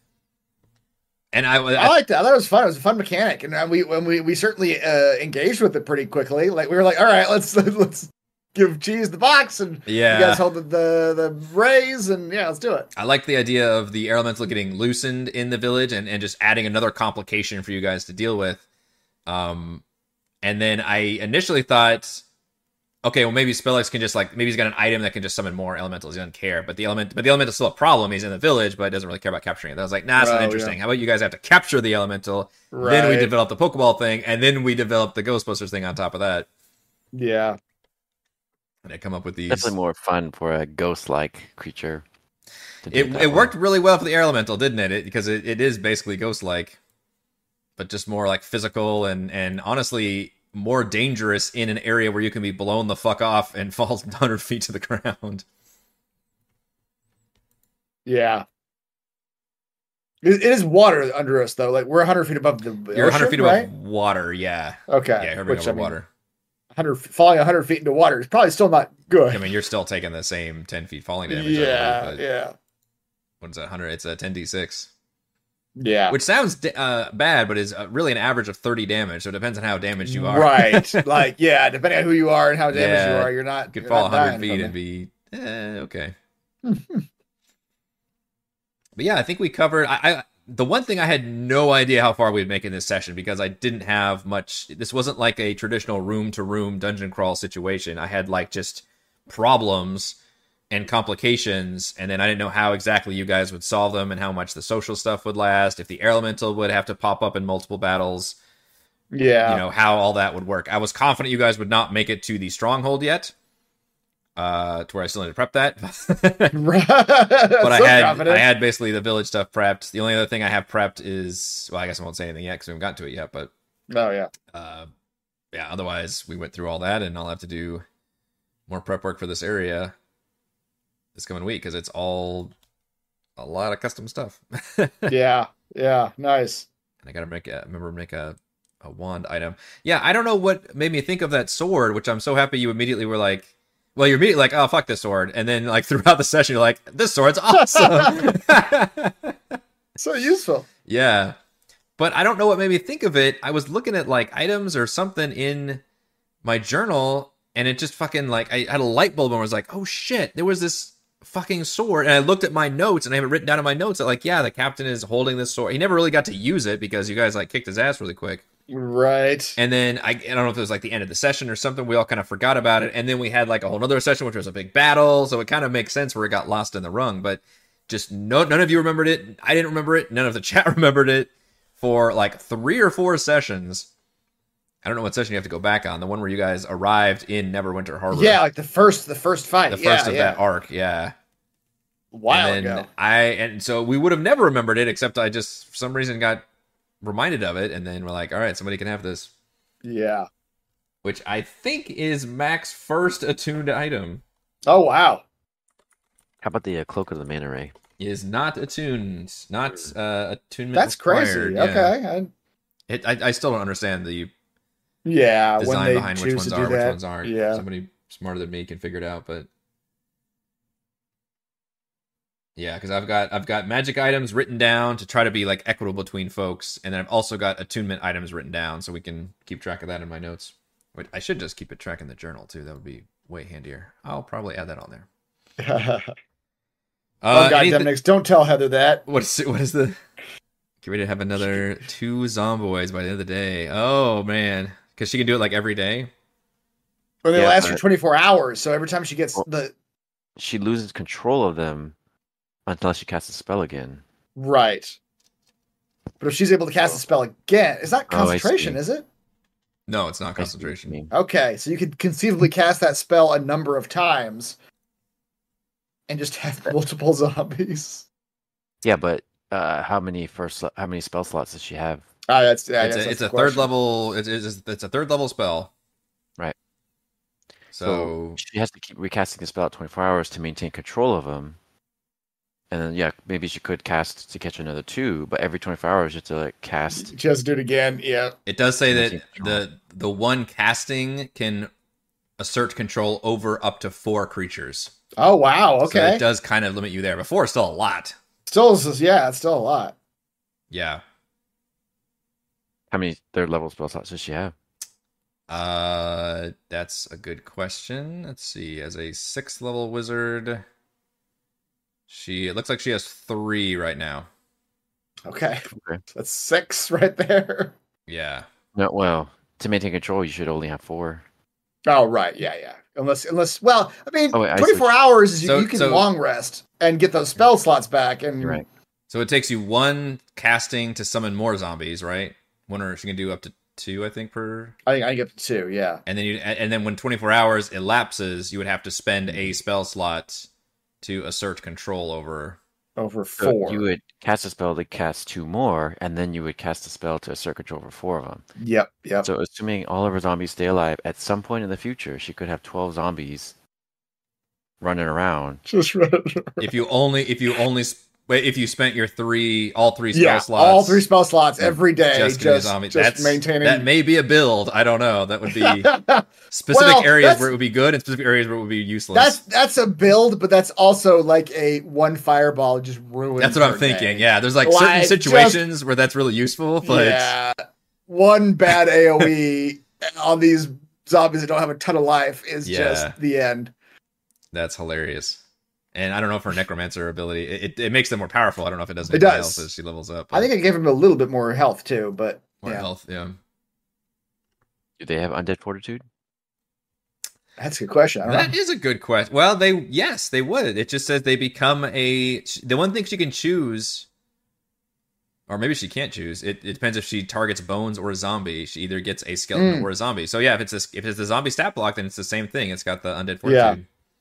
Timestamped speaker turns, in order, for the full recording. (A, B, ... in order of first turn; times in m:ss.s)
0:01.3-0:01.9 A
0:01.8-0:12.9 B
0:09.8-0:10.4 A
0:13.0-0:18.6 A
0:19.2-0:19.8 A
0:20.4-0:22.2 A
0:23.0-0:36.5 A
0:30.2-0:30.8 B
0:32.7-0:33.3 B
0:37.1-0:37.6 B
0:38.8-0:39.7 A
0:39.5-0:42.0 C
0:42.8-0:43.5 C
0:42.9-0:46.8 A
0:47.8-0:55.4 A
0:58.0-0:58.4 B
1:00.2-1:03.7 B
1:02.9-1:06.1 A
1:04.9-1:05.9 B
1:06.7-1:09.5 B
1:09.3-1:12.2 A
1:11.3-1:12.5 B
1:13.4-1:14.9 A
1:15.8-1:16.2 B
1:16.1-1:21.1 A
1:20.0-1:24.7 B
1:22.7-1:26.1 A
1:26.6-1:27.0 B
1:29.0-1:40.2 A
1:40.7-1:48.4 A
1:49.1-1:49.6 B
1:49.4-1:53.3 A
1:54.4-1:56.6 A
1:56.5-1:58.5 B
1:57.6-2:03.5 A
2:03.9-2:04.3 B
2:04.5-2:04.9 A
2:05.5-2:07.8 A
2:08.7-2:09.9 A
2:11.1-2:12.5 A
2:13.4-2:15.1 A
2:15.1-2:16.6 B
2:17.0-2:29.6 A
2:27.6-2:28.2 B
2:30.0-2:30.7 B
2:30.8-2:31.4 A
2:32.0-2:35.8 A
2:36.4-2:48.4 A
2:48.7-2:49.6 B
2:49.6-3:03.9 A
3:04.8-3:08.4 A
3:08.1-3:10.4 B
3:09.7-3:11.1 A
3:12.1-3:12.9 B
3:12.3-3:16.4 A
3:17.0-3:19.3 A
3:19.8-3:20.3 B
3:21.0-3:24.2 A
3:24.6-3:25.2 B
3:26.4-3:27.7 C
3:28.0-3:31.9 A
3:30.7-3:32.3 B
3:32.9-3:34.3 A
3:35.0-3:37.6 B
3:35.6-3:39.5 A
3:42.6-3:55.1 A
3:55.6-3:56.1 B
3:57.2-3:57.9 A
3:57.3-3:59.0 B
3:59.0-4:00.0 A
4:00.8-4:06.1 A
4:07.2-4:09.7 B
4:07.4-4:07.8 C
4:10.4-4:11.9 C
4:12.6-4:14.0 C
4:14.4-4:15.0 B
4:16.2-4:19.0 B
4:18.1-4:18.8 C
4:19.9-4:20.9 A
4:20.4-4:21.1 C
4:21.1-4:24.6 B
4:26.1-4:28.0 B
4:28.8-4:32.0 C
4:32.3-4:33.7 B
4:32.8-4:35.7 A
4:37.7-4:38.4 A
4:37.8-4:41.6 C
4:42.7-4:47.1 C
4:47.0-4:48.4 B
4:48.4-4:51.7 A
4:48.9-4:49.6 C
4:52.4-4:54.9 A
4:55.2-4:56.2 B
4:55.8-4:58.2 A
4:58.5-4:59.9 B
5:00.7-5:01.0 A
5:02.9-5:04.5 C
5:05.5-5:10.6 A
5:12.1-5:14.3 A
5:15.2-5:17.7 B
5:15.7-5:16.0 C
5:18.1-5:18.4 A
5:18.7-5:21.2 C
5:21.9-5:28.6 B
5:24.3-5:24.9 C
5:25.4-5:26.1 A
5:29.1-5:34.7 A
5:34.9-5:36.0 B
5:36.0-5:40.5 A
5:41.0-5:42.6 A
5:43.0-5:43.8 B
5:43.4-5:48.4 C
5:48.6-5:49.3 B
5:49.2-5:53.5 C
5:54.8-5:55.6 C
5:55.7-5:56.7 B
5:56.6-6:01.0 A
6:00.1-6:03.9 B
6:01.6-6:05.9 A
6:05.5-6:07.5 B
6:06.5-6:09.4 A
6:09.1-6:15.6 B
6:13.4-6:17.3 A
6:16.8-6:23.7 B
6:22.6-6:23.1 A
6:24.5-6:25.4 A
6:25.9-6:30.5 A
6:29.1-6:29.6 B
6:30.3-6:32.8 B
6:32.6-6:33.4 A
6:35.0-6:36.0 C
6:37.6-6:38.5 B
6:38.2-6:44.1 A
6:45.5-6:53.8 A
6:49.5-6:49.9 B
6:53.4-6:53.8 B